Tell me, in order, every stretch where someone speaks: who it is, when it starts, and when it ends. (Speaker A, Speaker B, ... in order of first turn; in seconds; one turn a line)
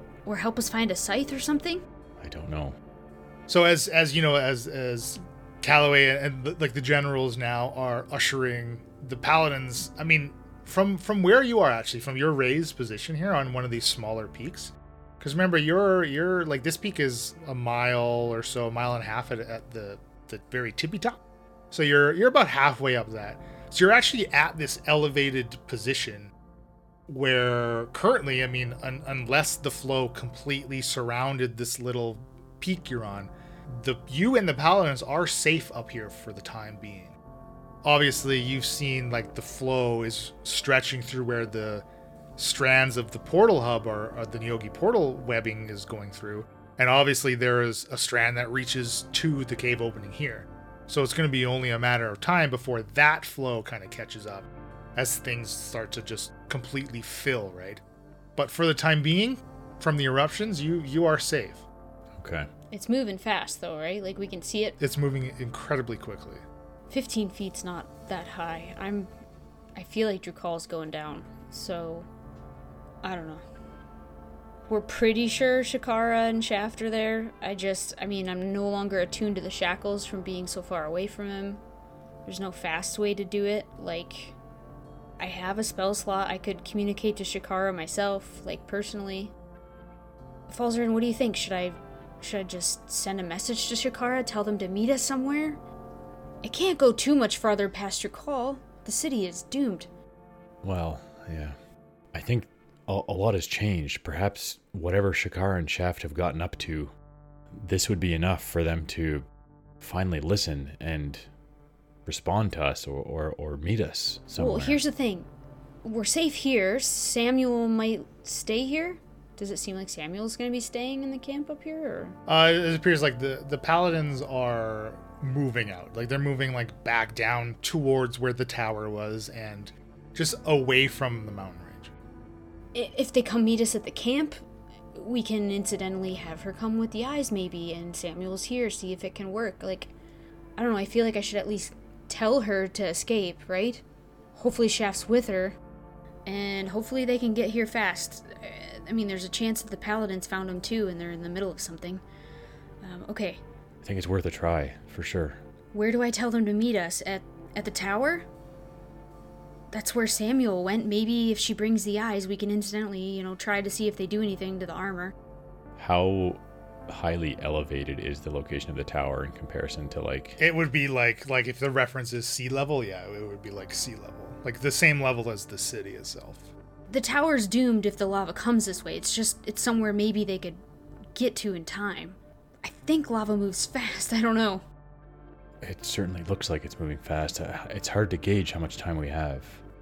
Speaker A: 0.3-1.9
Speaker B: 2.2-2.8
Speaker C: 3.5-21.2
Speaker C: 21.7-26.3
Speaker C: 27.1-37.1
Speaker C: 37.8-41.8
Speaker C: 42.4-57.8
Speaker C: 58.4-61.6
Speaker B: 62.2-62.5
Speaker A: 62.7-64.8
Speaker C: 64.8-66.4
Speaker A: 66.9-69.1
Speaker A: 69.8-72.1
Speaker A: 73.0-73.4
Speaker A: 74.7-81.6
Speaker A: 82.2-84.4
Speaker A: 85.2-89.3
Speaker A: 90.5-95.6
Speaker A: 96.4-99.9
Speaker B: 100.6-101.6
Speaker B: 102.1-106.9
Speaker B: 107.5-109.3
Speaker B: 109.8-111.3
Speaker B: 112.1-114.8
Speaker A: 114.4-115.3
Speaker A: 115.8-122.2
Speaker C: 122.3-131.9
Speaker A: 132.7-134.4
Speaker A: 134.9-139.9
Speaker A: 140.6-143.8
Speaker A: 144.3-145.6
Speaker A: 146.3-152.0
Speaker A: 152.8-153.4
Speaker B: 153.8-155.4
Speaker A: 155.7-158.3
Speaker A: 159.7-165.1
Speaker B: 165.8-170.4
Speaker C: 170.4-176.5
Speaker A: 176.9-180.6
Speaker A: 181.1-184.6
Speaker B: 185.6-189.6